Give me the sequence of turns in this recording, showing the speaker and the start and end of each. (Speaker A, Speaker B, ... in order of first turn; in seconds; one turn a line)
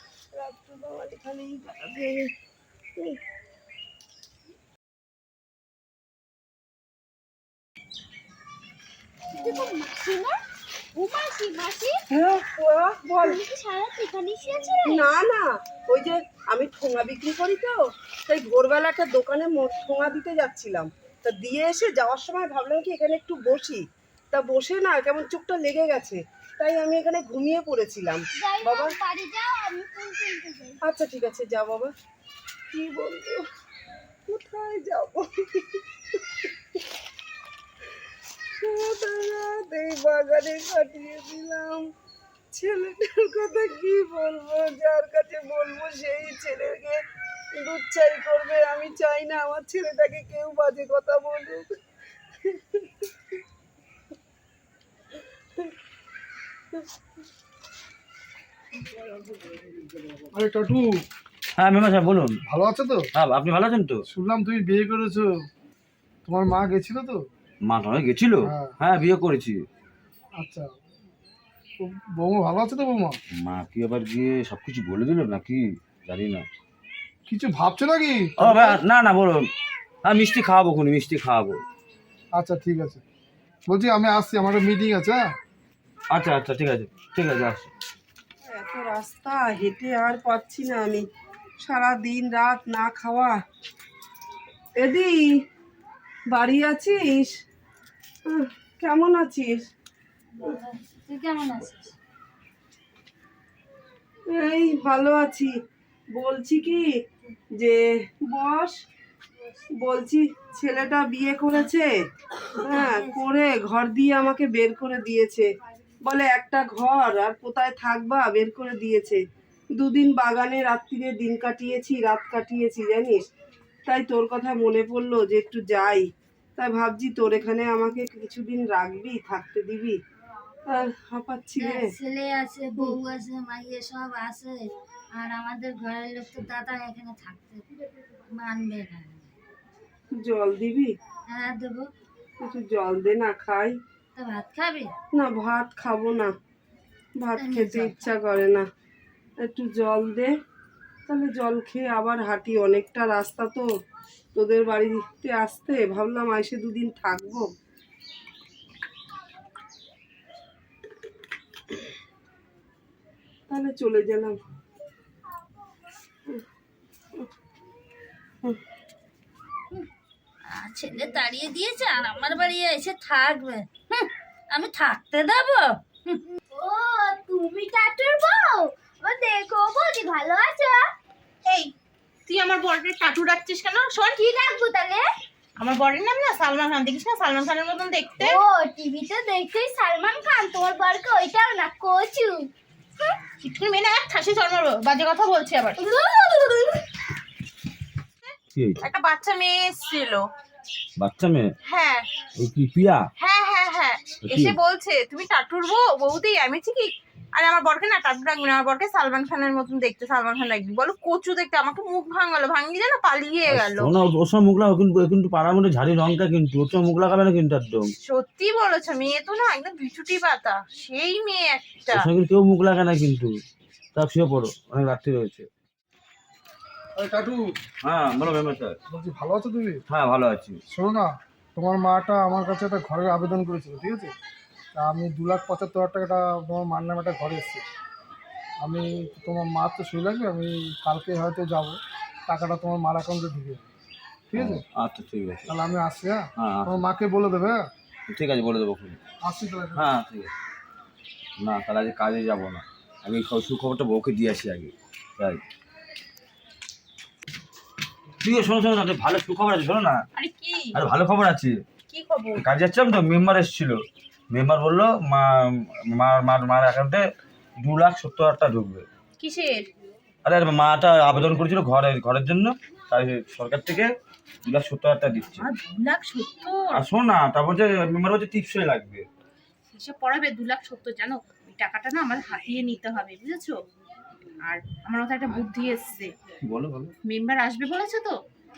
Speaker A: 0.3-2.3
Speaker B: 9.4-10.4
Speaker B: 10.9-11.9
Speaker A: 12.1-13.4
Speaker B: 13.2-15.1
Speaker A: 14.8-29.0
Speaker B: 28.4-30.8
Speaker A: 30.8-31.9
Speaker A: 32.7-33.4
Speaker A: 34.3-35.8
Speaker A: 38.6-41.8
Speaker A: 42.5-47.0
Speaker A: 47.6-51.7
Speaker A: 52.4-53.1
Speaker C: 60.3-61.0
Speaker D: 61.6-62.4
Speaker C: 62.5-63.1
Speaker D: 63.1-64.0
Speaker C: 64.1-65.4
Speaker C: 66.2-67.2
Speaker D: 67.6-69.6
Speaker C: 68.4-68.7
Speaker C: 70.4-70.7
Speaker C: 71.8-73.2
Speaker D: 73.4-76.5
Speaker C: 77.3-78.8
Speaker D: 78.4-79.5
Speaker D: 80.0-81.6
Speaker C: 82.4-83.0
Speaker C: 83.7-85.3
Speaker D: 86.1-87.7
Speaker A: 88.5-91.0
Speaker A: 91.6-93.3
Speaker A: 94.8-95.2
Speaker A: 96.3-97.3
Speaker A: 98.3-99.6
Speaker E: 100.4-101.9
Speaker A: 104.3-105.5
Speaker A: 106.1-106.9
Speaker A: 107.6-108.7
Speaker A: 109.8-111.9
Speaker A: 112.6-115.5
Speaker A: 116.0-119.2
Speaker A: 119.8-123.2
Speaker A: 123.9-126.0
Speaker A: 126.6-130.0
Speaker A: 130.7-131.9
Speaker E: 131.6-137.7
Speaker E: 138.3-139.3
Speaker A: 140.1-140.9
Speaker E: 141.3-141.9
Speaker A: 142.4-143.7
Speaker E: 144.1-144.9
Speaker A: 145.1-146.3
Speaker A: 147.2-148.7
Speaker E: 147.3-148.2
Speaker A: 149.4-150.3
Speaker A: 151.1-153.7
Speaker A: 154.3-157.5
Speaker A: 163.5-164.4
Speaker E: 170.5-176.2
Speaker B: 176.5-180.8
Speaker F: 181.4-181.7
Speaker F: 182.3-184.2
Speaker B: 184.1-185.0
Speaker F: 185.6-188.4
Speaker B: 188.2-193.1
Speaker F: 193.4-196.0
Speaker B: 195.8-196.8
Speaker D: 198.5-198.8
Speaker F: 198.8-200.3
Speaker D: 201.0-201.5
Speaker F: 201.7-202.1
Speaker D: 202.4-203.1
Speaker F: 203.2-213.9
Speaker D: 204.2-204.5
Speaker D: 213.5-217.9
Speaker F: 218.0-222.0
Speaker D: 221.9-223.3
Speaker D: 223.9-225.5
Speaker C: 226.9-227.5
Speaker D: 227.8-228.8
Speaker C: 228.9-229.8
Speaker D: 229.9-230.6
Speaker C: 230.7-234.1
Speaker C: 234.8-237.6
Speaker C: 238.6-243.7
Speaker C: 244.3-244.6
Speaker D: 244.3-245.5
Speaker C: 245.5-247.7
Speaker D: 246.4-246.8
Speaker D: 248.1-249.0
Speaker C: 249.2-249.9
Speaker D: 249.8-250.3
Speaker D: 251.4-255.4
Speaker D: 258.2-260.0
Speaker F: 260.1-260.7
Speaker D: 260.8-261.6
Speaker F: 261.9-262.4
Speaker D: 262.4-263.8
Speaker D: 264.3-267.0
Speaker D: 267.6-268.9
Speaker F: 269.2-269.6
Speaker D: 270.2-273.9
Speaker D: 274.4-275.5
Speaker F: 275.4-276.8
Speaker D: 276.7-279.1
Speaker F: 279.7-283.6
Speaker F: 284.4-286.1
Speaker D: 286.4-286.9
Speaker F: 287.1-288.1